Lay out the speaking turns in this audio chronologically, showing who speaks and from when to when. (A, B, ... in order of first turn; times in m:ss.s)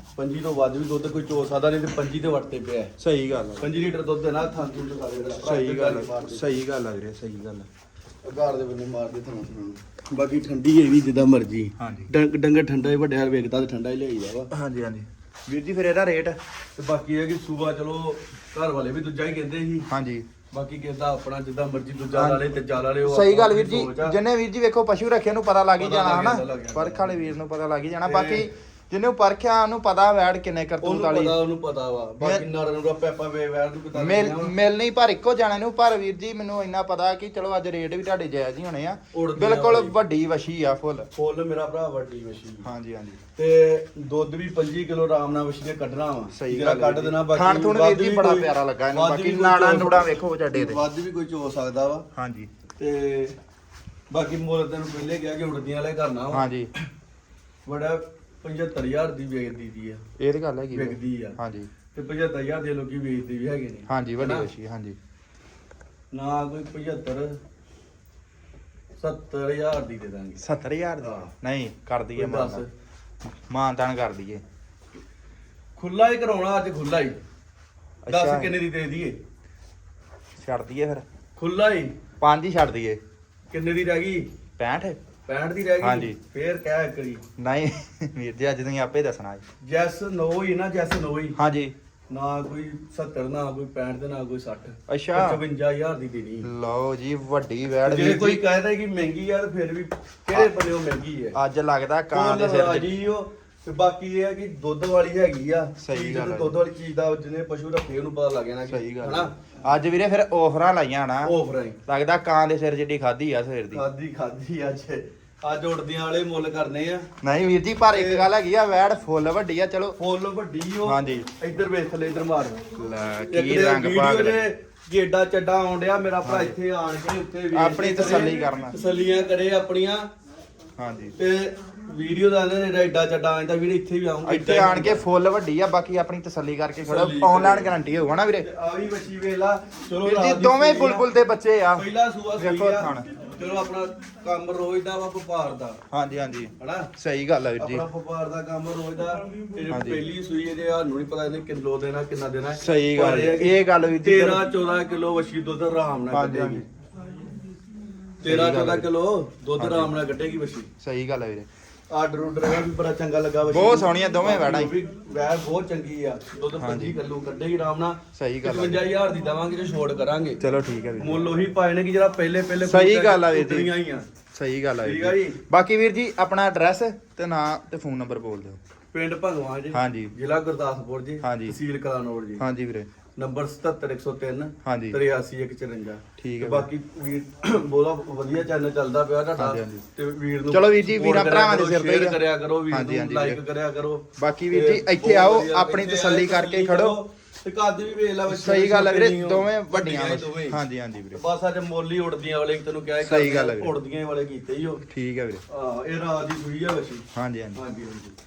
0:00.2-0:02.9 A
0:03.0-0:03.7 B
0:03.6-0:06.6 A
0:05.4-0:07.7 B
0:08.2-0:14.5 A
0:11.8-0:12.1 B
0:14.5-0:16.4 B
0:16.8-0:19.9 A
0:19.9-0:20.3 B
0:20.5-0:24.2 A
0:22.1-0:22.4 B
0:23.0-0:31.4 B
0:25.8-0:27.3 A
0:28.0-0:28.5 A
0:30.8-0:34.5 A
0:32.2-0:32.4 B
0:33.9-0:41.1 B
0:39.1-0:40.0 A
0:41.2-0:42.6 A
0:42.6-0:43.2 B
0:43.4-0:52.0 A
0:46.3-0:50.8 B
0:52.1-0:52.5 B
0:52.8-0:53.3 A
0:54.1-0:56.9 A
0:56.3-0:56.7 B
0:57.6-1:00.0 A
1:00.2-1:01.7 B
1:00.7-1:01.4 A
1:01.9-1:04.5 A
1:03.9-1:05.0 B
1:06.1-1:07.4 A
1:09.0-1:10.4 A
1:10.4-1:12.6 B
1:11.0-1:11.3 A
1:12.2-1:12.7 A
1:13.5-1:14.4 B
1:15.8-1:17.2 A
1:18.0-1:18.5 B
1:18.1-1:19.2 A
1:20.4-1:21.0 B
1:21.4-1:21.9 A
1:22.2-1:23.0 B
1:23.5-1:24.3 A
1:24.6-1:25.0 B
1:25.3-1:27.2 A
1:25.8-1:26.2 B
1:27.4-1:29.4 B
1:29.6-1:31.4 A
1:31.4-1:31.7 B
1:32.1-1:36.5 A
1:34.9-1:35.4 B
1:36.4-1:38.4 B
1:37.9-1:41.4 A
1:41.3-1:42.9 B
1:42.1-1:49.3 A
1:45.8-1:46.5 B
1:48.7-1:51.3 B
1:51.2-1:51.8 A
1:51.8-1:53.8 B
1:53.7-1:57.1 A
1:57.2-2:00.0 B
1:57.9-1:58.3 A
2:00.0-2:02.6 A
2:00.8-2:01.3 B
2:02.7-2:04.5 B
2:03.3-2:10.1 A
2:06.2-2:06.5 B
2:07.5-2:08.8 B
2:10.8-2:11.1 B
2:11.2-2:15.0 A
2:14.2-2:18.5 B
2:16.8-2:17.8 A
2:18.4-2:21.1 A
2:20.0-2:21.8 B
2:21.8-2:25.8 A
2:22.4-2:23.1 B
2:25.9-2:27.8 B
2:26.6-2:26.9 A
2:27.6-2:36.6 A
2:29.7-2:30.0 B
2:32.6-2:34.5 B
2:36.1-2:36.7 B
2:38.2-2:40.7 A
2:38.2-2:38.8 B
2:39.6-2:39.9 B
2:40.8-2:41.5 B
2:41.9-2:50.4 A
2:43.5-2:44.7 B
2:46.6-2:47.0 B
2:48.1-2:48.8 B
2:50.4-2:51.5 B
2:51.0-2:54.1 A
2:52.7-2:53.7 B
2:54.3-2:58.6 B
2:54.8-2:55.4 A
2:58.9-3:02.4 A
2:59.7-3:00.1 B
3:01.2-3:01.6 B
3:02.4-3:02.9 B
3:03.2-3:20.6 A
3:04.6-3:05.0 B
3:06.2-3:06.7 B
3:09.4-3:09.8 B
3:10.5-3:13.4 B
3:14.2-3:17.0 B
3:18.3-3:21.2 B
3:21.1-3:24.8 A
3:23.0-3:23.7 B
3:24.9-3:25.4 B
3:25.5-3:28.1 A
3:27.1-3:27.6 B